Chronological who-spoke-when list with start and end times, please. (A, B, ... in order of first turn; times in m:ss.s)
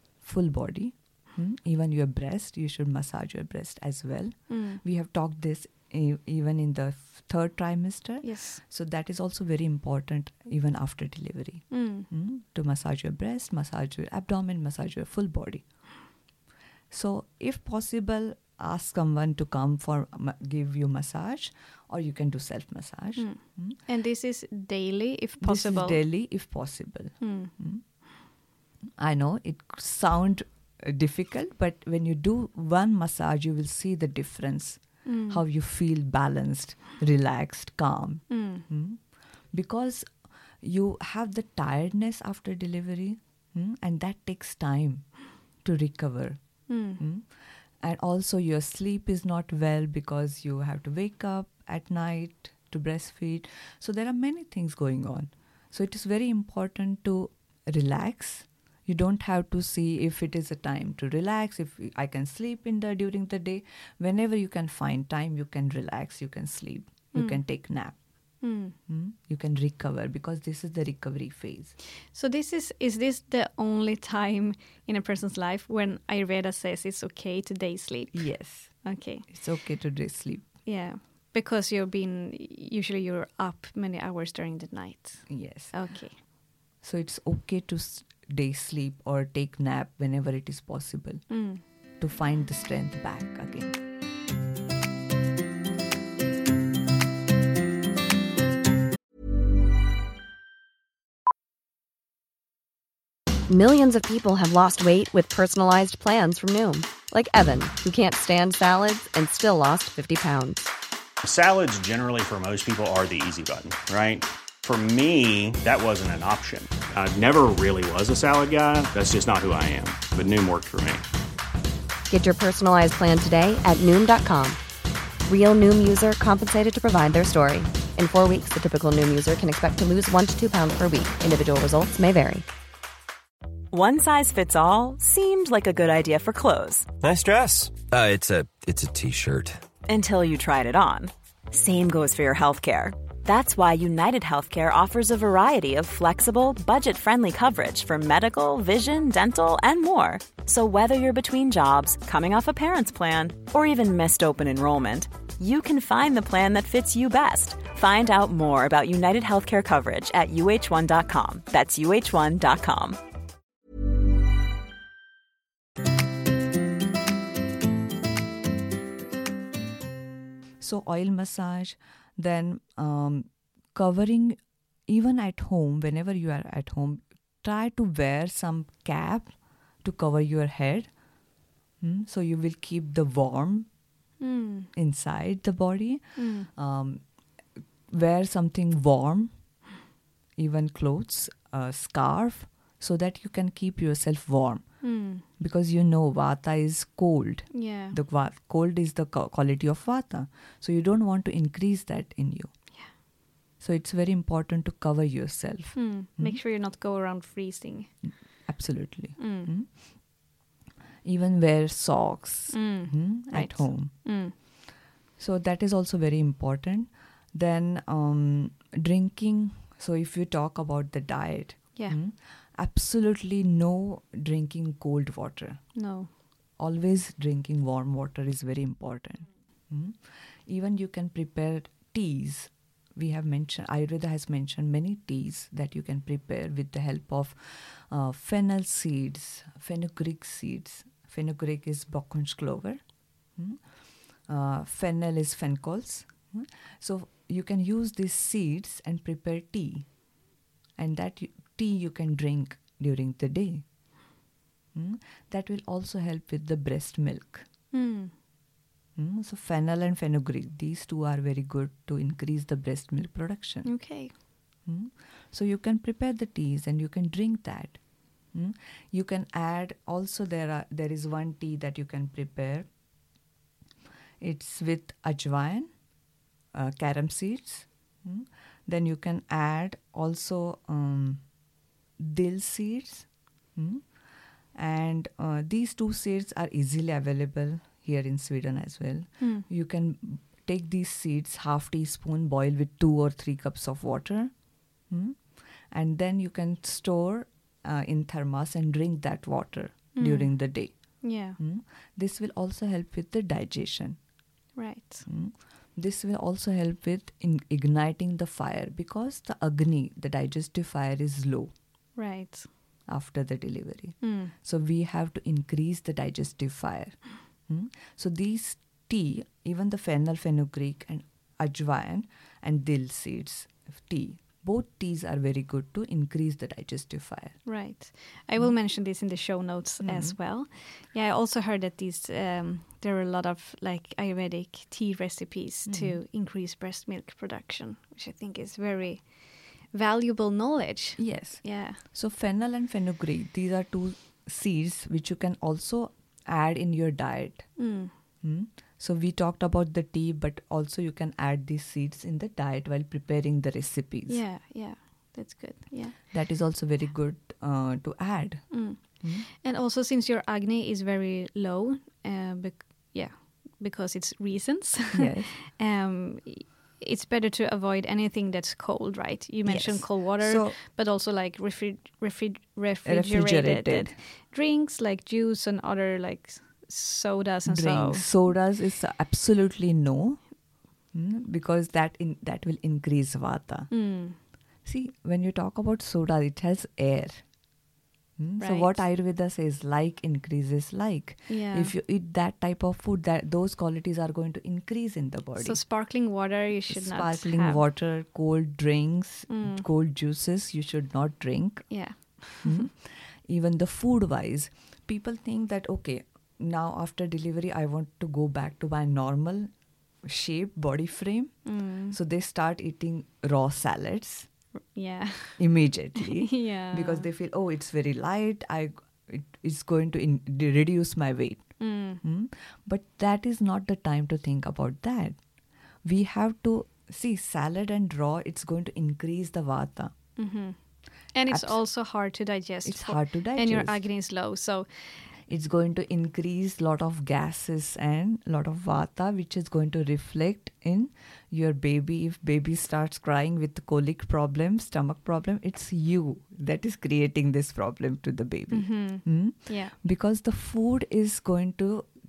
0:00.2-0:15.6 A
0:04.5-0:04.8 B
0:08.2-0:08.6 B
0:11.7-0:12.1 B
0:16.9-0:23.8 A
0:23.2-0:26.0 B
0:25.4-0:27.8 A
0:27.2-0:27.5 B
0:29.0-0:47.3 A
0:35.0-0:35.4 B
0:38.3-0:38.6 B
0:46.7-0:47.0 B
0:47.8-1:07.9 A
1:07.1-1:07.4 B
1:08.4-1:08.8 B
1:08.9-1:11.7 A
1:12.1-1:19.3 B
1:18.1-1:20.5 A
1:20.6-1:26.2 B
1:25.3-1:25.8 A
1:26.8-1:33.8 A
1:31.3-1:31.6 B
1:43.5-1:50.7 C
1:51.2-2:01.0 D
2:02.1-2:04.6 C
2:05.3-2:12.4 C
2:13.7-2:16.9 E
2:17.0-2:19.6 F
2:19.8-2:43.0 E
2:50.6-3:00.9 A
3:01.8-3:03.7 A
3:04.2-3:04.7 B
3:04.8-3:07.0 A
3:06.2-3:06.5 B
3:07.9-3:09.3 A
3:10.4-3:22.5 A
3:14.8-3:15.2 B
3:17.5-3:18.0 B
3:23.6-3:26.4 A
3:25.7-3:27.9 B
3:28.4-3:29.7 A
3:29.2-3:29.5 B
3:31.0-3:34.4 A
3:32.5-3:34.3 B
3:35.2-3:45.6 A
3:45.8-3:46.1 B
3:46.6-4:02.8 A
4:03.3-4:03.6 A
4:04.2-4:09.9 A
4:10.8-4:13.6 A
4:14.7-4:17.4 A
4:17.7-4:18.1 B
4:19.0-4:23.7 A
4:23.6-4:24.1 B
4:24.6-4:27.8 A
4:28.3-4:32.7 A
4:34.2-4:35.7 A
4:36.5-4:41.2 A
4:42.0-4:43.8 A
4:44.5-4:54.3 A
4:49.2-4:49.4 B
4:54.9-5:04.0 A
4:59.9-5:01.4 B
5:04.5-5:05.0 B
5:05.1-5:11.5 A
5:12.0-5:12.5 B
5:12.9-5:27.4 A
5:14.0-5:14.3 B
5:27.4-5:41.8 B
5:29.8-5:30.2 A
5:35.7-5:36.0 A
5:41.0-5:47.5 A
5:47.6-5:47.9 B
5:48.2-5:54.2 A
5:54.1-5:56.0 B
5:56.1-5:59.3 A
5:58.5-6:18.1 B
6:04.9-6:05.3 A
6:09.4-6:10.6 A
6:12.8-6:14.0 A
6:17.4-6:20.2 A
6:20.9-6:23.7 A
6:23.7-6:24.2 B
6:24.6-6:27.2 A
6:28.2-6:35.6 A
6:28.4-6:28.8 B
6:31.3-6:31.7 B
6:35.4-6:37.6 B
6:36.7-6:49.5 A
6:39.3-6:39.6 B
6:41.7-6:42.7 B
6:50.0-6:54.3 A
6:51.4-6:52.0 B
6:54.7-6:55.4 B
6:55.4-7:05.2 A
6:56.0-6:57.1 B
7:01.6-7:02.0 B
7:05.8-7:09.9 A
7:10.2-7:10.6 B
7:11.1-7:15.1 B
7:11.2-7:11.6 A
7:12.6-7:13.8 A
7:15.3-7:31.9 A
7:28.5-7:29.7 B